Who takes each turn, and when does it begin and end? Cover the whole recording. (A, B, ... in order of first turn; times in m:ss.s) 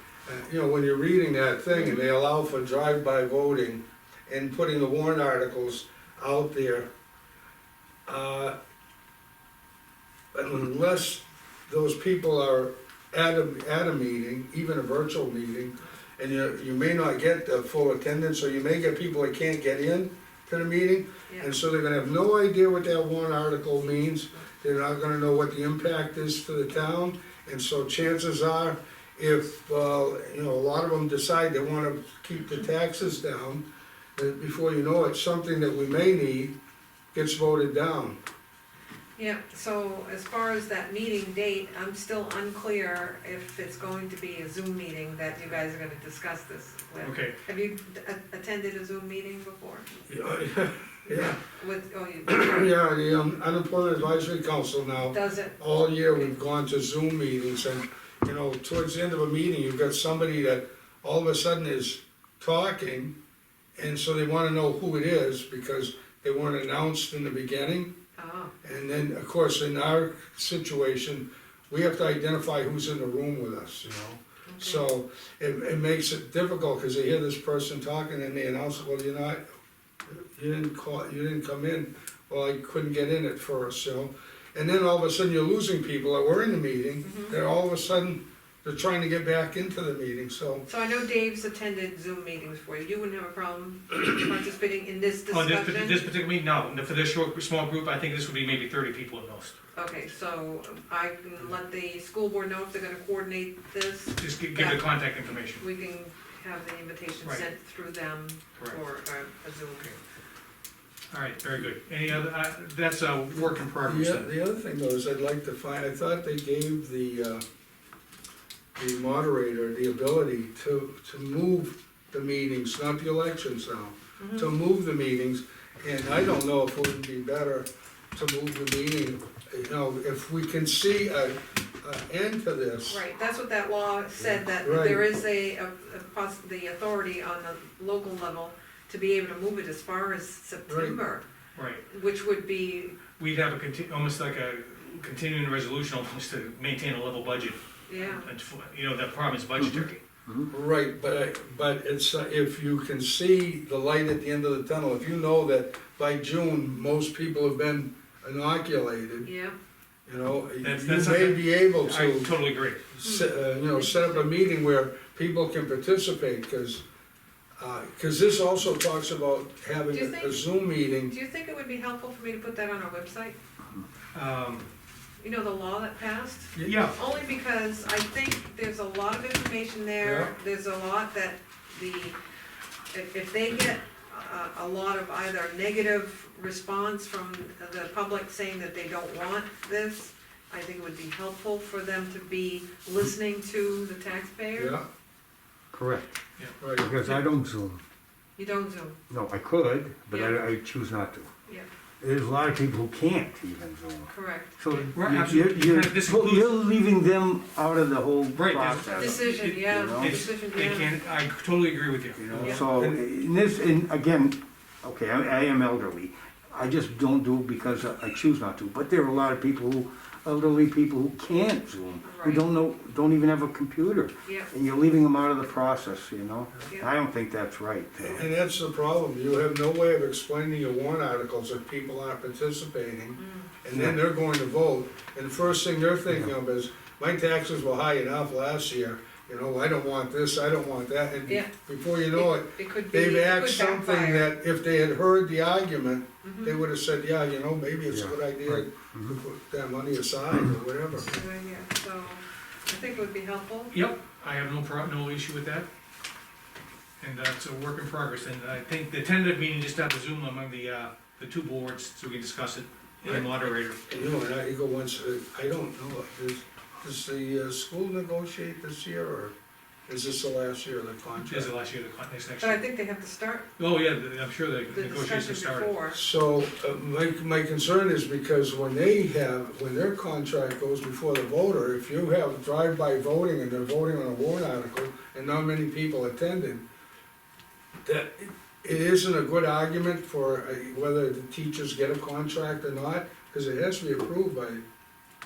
0:00.2-0:06.9 A
0:08.0-0:08.5 A
0:10.3-0:33.6 A
0:34.2-0:36.5 A
0:37.1-0:38.2 A
0:39.2-0:49.9 B
0:47.0-0:47.4 C
0:50.1-0:51.4 A
0:51.0-0:52.7 B
0:52.2-1:03.1 A
0:55.1-0:55.6 B
1:03.8-1:07.9 A
1:08.2-1:08.5 B
1:08.6-1:19.4 A
1:14.5-1:14.9 B
1:20.1-1:30.6 A
1:27.0-1:27.4 B
1:30.7-1:36.0 B
1:35.3-1:39.6 C
1:39.7-1:44.9 B
1:44.2-1:45.6 C
1:45.6-1:50.0 B
1:51.1-1:54.3 C
1:53.8-1:57.4 A
1:58.8-2:13.0 A
2:04.2-2:04.5 B
2:12.9-2:21.2 B
2:14.4-2:15.0 A
2:20.7-2:21.0 A
2:21.5-2:21.8 C
2:21.9-2:23.1 B
2:23.1-2:30.0 C
2:27.9-2:28.3 B
2:29.6-2:30.5 D
2:30.5-2:39.3 A
2:39.2-2:39.6 B
2:40.0-2:42.3 A
2:40.6-2:42.8 C
2:42.9-2:46.8 A
2:43.0-2:44.3 B
2:47.6-2:51.1 A
2:49.9-2:50.5 B
2:51.0-2:53.4 B
2:54.1-2:54.6 C
2:55.2-3:02.2 B
2:56.6-2:57.0 C
3:00.0-3:00.3 A
3:02.9-3:14.8 B
3:14.6-3:14.8 A
3:15.7-3:16.1 D
3:16.6-3:16.9 A
3:16.8-3:17.8 D
3:18.4-3:19.0 B
3:19.1-3:21.3 D
3:20.1-3:20.4 B
3:22.0-3:30.2 D
3:24.1-3:24.9 B
3:24.9-3:26.6 C
3:28.3-3:32.5 C
3:28.9-3:31.0 B
3:32.2-3:48.2 D
3:32.3-3:33.0 A
3:42.0-3:42.4 B
3:44.2-3:44.5 B
3:48.0-4:11.1 A
3:53.2-3:53.5 B
3:53.7-3:54.0 D
4:02.1-4:04.3 B
4:06.2-4:06.6 B
4:07.9-4:09.2 D
4:11.1-4:13.7 B
4:13.7-4:15.7 C
4:17.0-4:23.8 C
4:23.9-4:29.3 A
4:29.9-4:31.5 A
4:31.2-4:32.6 C
4:32.4-4:33.5 B
4:33.6-4:35.7 C
4:34.7-4:36.0 B
4:35.9-4:46.6 A
4:47.8-4:54.6 A